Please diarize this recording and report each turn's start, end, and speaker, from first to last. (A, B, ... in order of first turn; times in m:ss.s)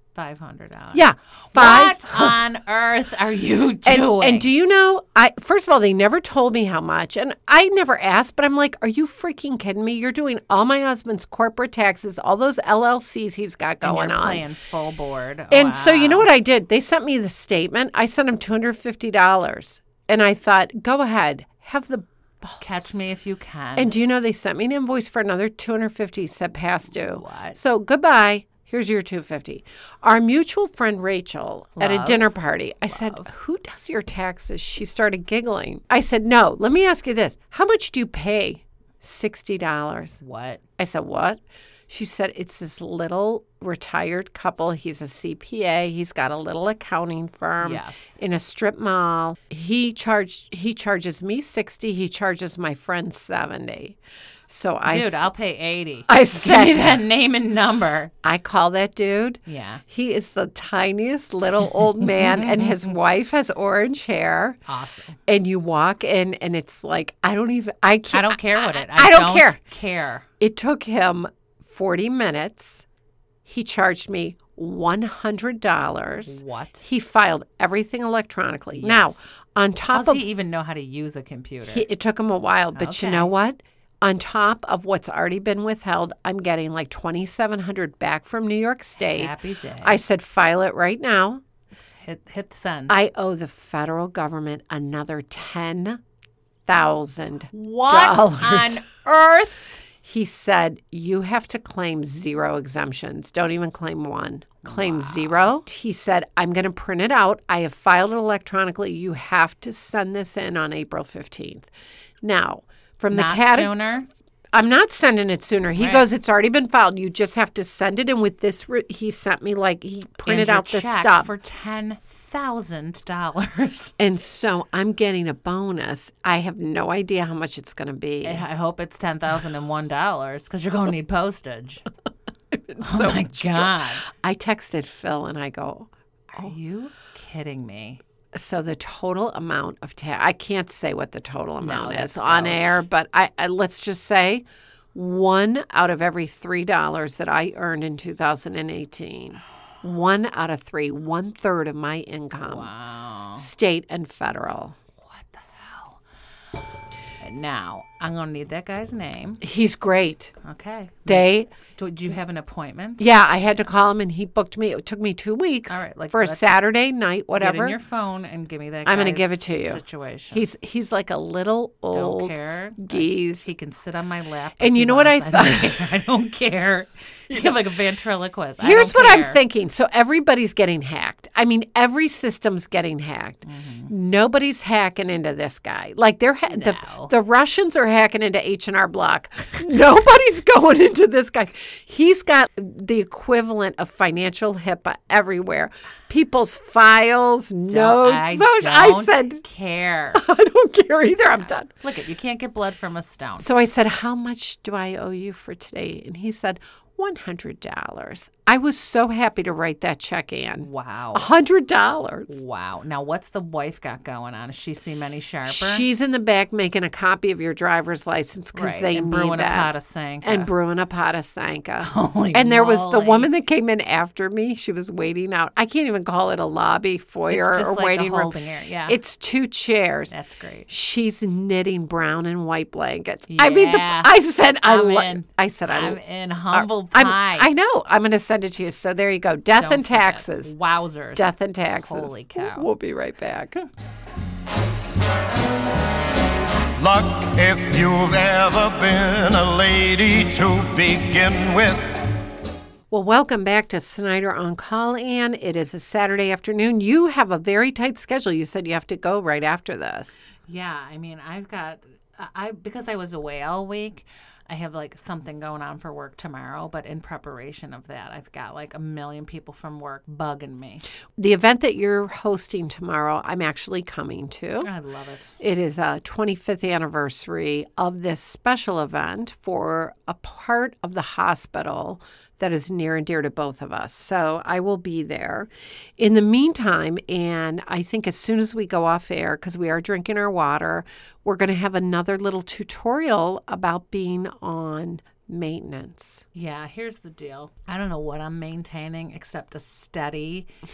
0:00.2-0:04.5 A
0:00.9-0:02.4 B
0:03.8-0:14.4 B
0:13.8-0:16.3 A
0:15.5-0:22.9 B
0:22.6-0:23.9 A
0:23.8-0:40.2 B
0:26.9-0:27.6 A
0:31.8-0:32.3 A
0:32.9-0:33.3 A
0:40.2-0:40.6 A
0:40.8-0:54.0 B
0:47.6-0:48.2 A
0:54.5-0:55.3 B
0:54.9-0:58.1 A
0:56.1-0:57.0 B
0:58.2-1:04.6 B
0:59.5-0:59.8 A
1:02.2-1:02.8 A
1:04.7-1:05.2 A
1:05.3-1:09.6 B
1:08.1-1:10.3 A
1:10.4-1:12.8 B
1:13.4-1:20.2 B
1:16.2-1:16.8 A
1:18.8-1:19.2 A
1:19.9-1:21.9 A
1:21.6-1:31.4 B
1:22.7-1:23.3 A
1:29.0-1:30.0 A
1:32.0-1:33.0 A
1:32.9-1:36.0 B
1:36.7-1:38.8 B
1:37.5-1:39.8 A
1:40.0-1:51.7 B
1:44.6-1:45.5 A
1:52.2-1:53.8 B
1:53.1-1:54.1 A
1:54.5-2:01.3 B
1:55.8-1:56.1 A
2:00.2-2:04.0 A
2:04.0-2:08.4 B
2:08.2-2:11.8 A
2:12.5-2:16.5 B
2:12.8-2:14.1 A
2:16.3-2:18.0 A
2:18.3-2:32.7 B
2:21.6-2:22.8 A
2:32.4-2:33.5 A
2:33.4-2:34.8 B
2:35.0-2:36.0 A
2:37.2-2:39.4 A
2:39.4-2:40.3 B
2:40.4-2:43.1 A
2:41.1-2:41.5 B
2:43.0-2:47.8 B
2:45.7-2:46.7 A
2:47.4-2:50.4 A
2:48.9-2:53.5 B
2:51.9-2:59.4 A
2:54.6-2:55.8 B
2:58.6-3:19.4 B
3:03.4-3:03.9 A
3:06.5-3:07.1 A
3:17.7-3:20.2 A
3:20.1-3:21.7 B
3:21.7-3:23.5 A
3:23.4-3:32.4 B
3:30.6-3:31.3 A
3:32.3-3:35.9 A
3:35.5-3:39.7 B
3:38.5-3:40.5 A
3:40.2-3:48.4 B
3:41.8-3:43.3 A
3:47.3-3:49.0 A
3:48.9-3:50.1 B
3:50.1-3:50.7 A
3:50.7-3:56.0 B
3:53.3-3:57.5 A
3:56.5-4:00.5 B
3:59.6-4:02.7 A
4:01.2-4:03.6 B
4:06.8-4:12.1 C
4:12.9-4:20.2 B
4:20.5-4:30.8 A
4:31.2-4:34.7 B
4:34.6-4:35.3 A
4:35.4-4:56.2 B
4:56.3-5:00.5 A